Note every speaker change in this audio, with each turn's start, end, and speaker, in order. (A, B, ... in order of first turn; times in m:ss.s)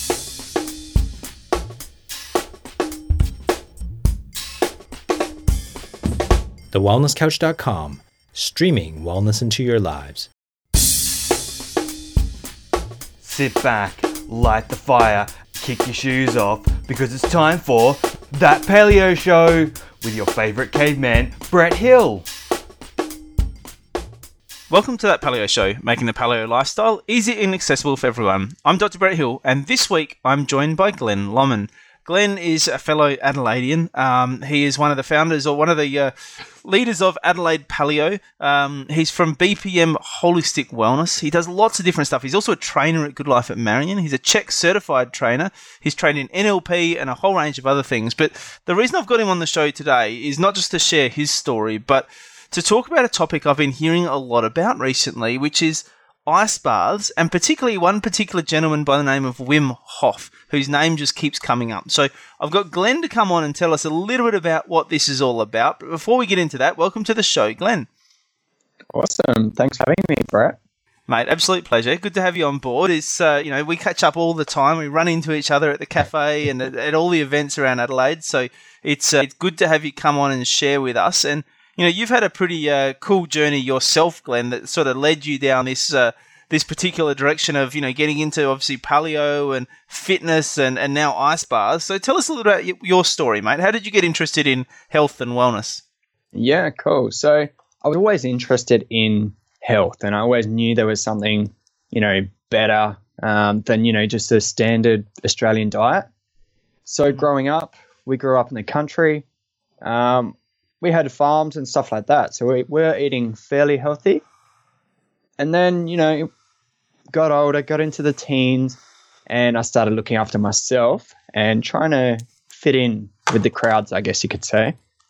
0:06.7-0:10.3 A
0:13.2-0:22.3 B
0:24.7-1:07.9 C
1:08.9-1:10.6 D
1:11.1-1:35.8 C
1:36.3-1:46.1 D
1:46.9-1:49.2 D
1:49.8-1:54.2 D
1:55.4-1:56.3 D
1:57.1-2:04.8 D